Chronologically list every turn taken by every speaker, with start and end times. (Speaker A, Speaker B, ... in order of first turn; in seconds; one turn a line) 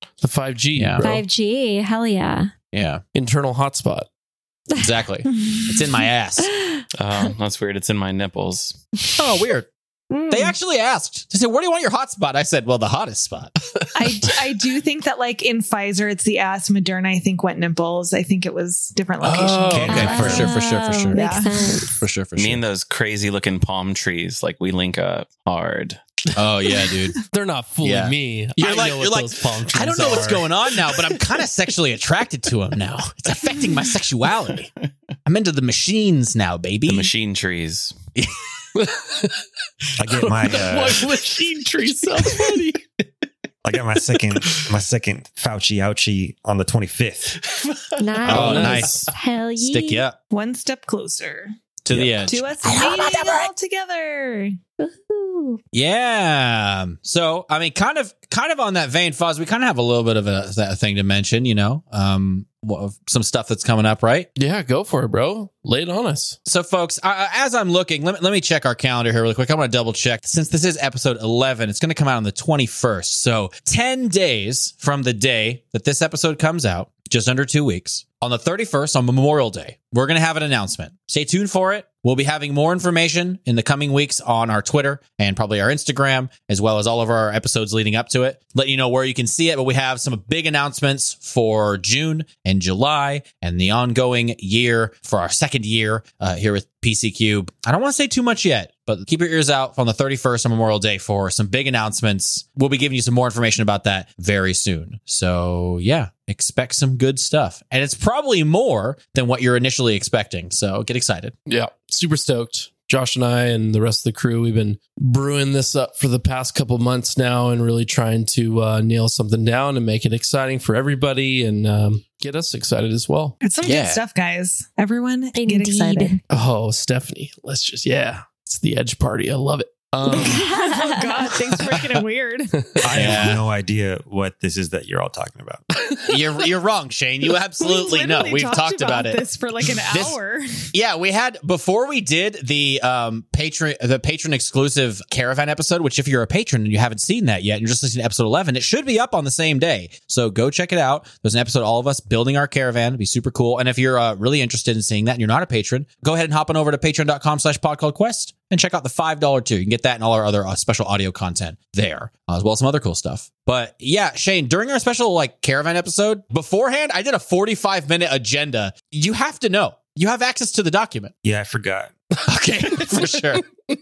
Speaker A: 0.2-1.2
Speaker B: 0.8-1.1
Speaker C: 1.0-2.5
Speaker B: 2.7-3.0
Speaker A: 3.1-4.1
Speaker B: 4.8-6.5
Speaker C: 6.5-6.8
Speaker D: 6.9-8.8
Speaker B: 9.2-9.7
Speaker C: 10.1-10.5
Speaker B: 10.3-13.5
Speaker E: 13.9-21.8
Speaker B: 19.2-21.2
Speaker F: 19.7-20.5
Speaker C: 19.8-22.0
Speaker B: 21.8-22.6
Speaker D: 22.4-26.0
Speaker B: 26.3-27.2
Speaker A: 27.3-31.2
Speaker B: 27.8-34.7
Speaker B: 35.2-37.1
Speaker D: 36.9-37.9
Speaker A: 38.8-39.4
Speaker F: 40.0-41.1
Speaker A: 40.0-42.9
Speaker F: 43.6-47.4
Speaker C: 48.0-50.0
Speaker B: 48.2-50.1
Speaker A: 48.3-49.1
Speaker E: 50.3-51.5
Speaker B: 51.9-53.5
Speaker E: 52.2-54.6
Speaker C: 54.8-55.6
Speaker B: 55.7-64.3
Speaker A: 64.3-66.4
Speaker B: 66.5-111.3
Speaker A: 111.5-123.4
Speaker E: 123.4-126.2
Speaker B: 123.6-124.0
Speaker C: 125.3-126.2
Speaker A: 126.3-130.5
Speaker E: 130.1-132.8
Speaker C: 130.1-131.3
Speaker F: 132.8-135.7
Speaker B: 132.9-133.4
Speaker B: 136.0-139.2
Speaker E: 137.6-140.6
Speaker B: 139.9-140.2
Speaker B: 140.7-171.1
Speaker F: 171.2-171.9
Speaker B: 172.2-173.5